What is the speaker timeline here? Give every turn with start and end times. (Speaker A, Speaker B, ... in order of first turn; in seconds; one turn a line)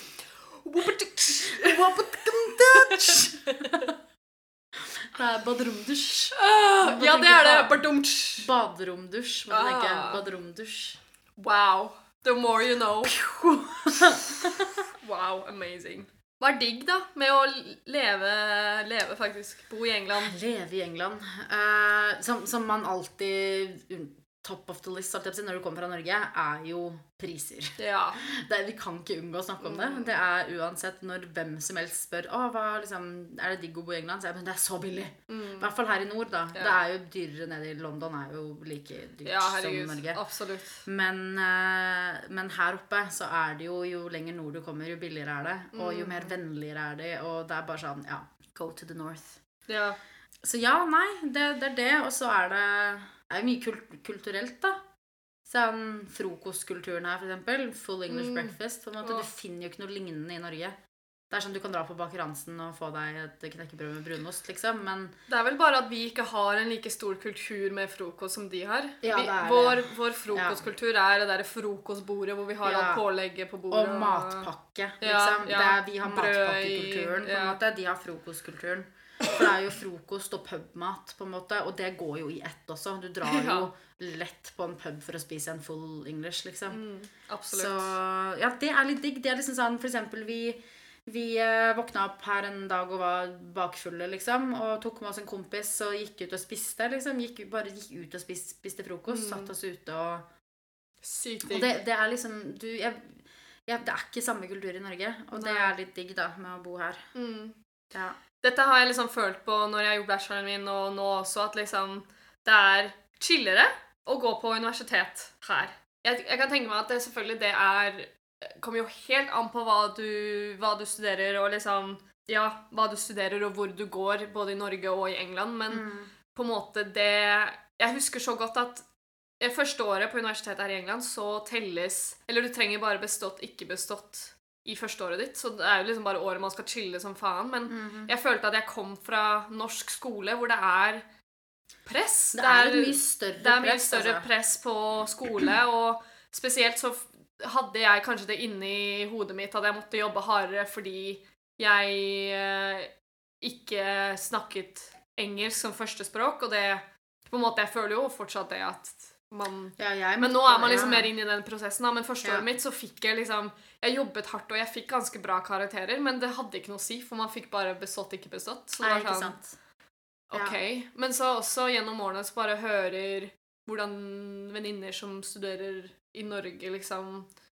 Speaker A: 0.6-3.9
Speaker B: 1.3-3.9
Speaker B: 4.8-7.9
Speaker A: 6.3-8.5
Speaker B: 8.4-11.0
Speaker A: 9.5-10.2
Speaker A: 11.4-13.2
Speaker B: 13.0-14.8
Speaker A: 14.5-20.3
Speaker B: 20.1-40.2
Speaker A: 27.8-28.2
Speaker A: 29.6-30.1
Speaker A: 35.3-35.7
Speaker A: 39.2-40.8
Speaker B: 40.8-49.4
Speaker A: 45.7-46.3
Speaker A: 49.7-50.0
Speaker B: 50.4-54.8
Speaker B: 55.5-60.8
Speaker A: 58.1-59.3
Speaker B: 61.3-65.1
Speaker A: 65.3-74.5
Speaker B: 69.0-70.6
Speaker B: 72.6-73.0
Speaker B: 73.7-86.8
Speaker A: 75.0-77.6
Speaker A: 83.2-83.7
Speaker A: 86.7-88.0
Speaker B: 87.5-100.2
Speaker A: 99.1-99.5
Speaker A: 101.0-101.7
Speaker B: 101.4-107.1
Speaker A: 105.3-105.7
Speaker A: 107.1-107.6
Speaker A: 108.4-128.8
Speaker B: 125.7-126.1
Speaker A: 129.4-141.0
Speaker B: 137.7-138.1
Speaker A: 141.8-169.3
Speaker B: 142.3-144.3
Speaker B: 159.8-161.1
Speaker B: 162.2-162.5
Speaker B: 168.8-169.5
Speaker A: 170.3-177.3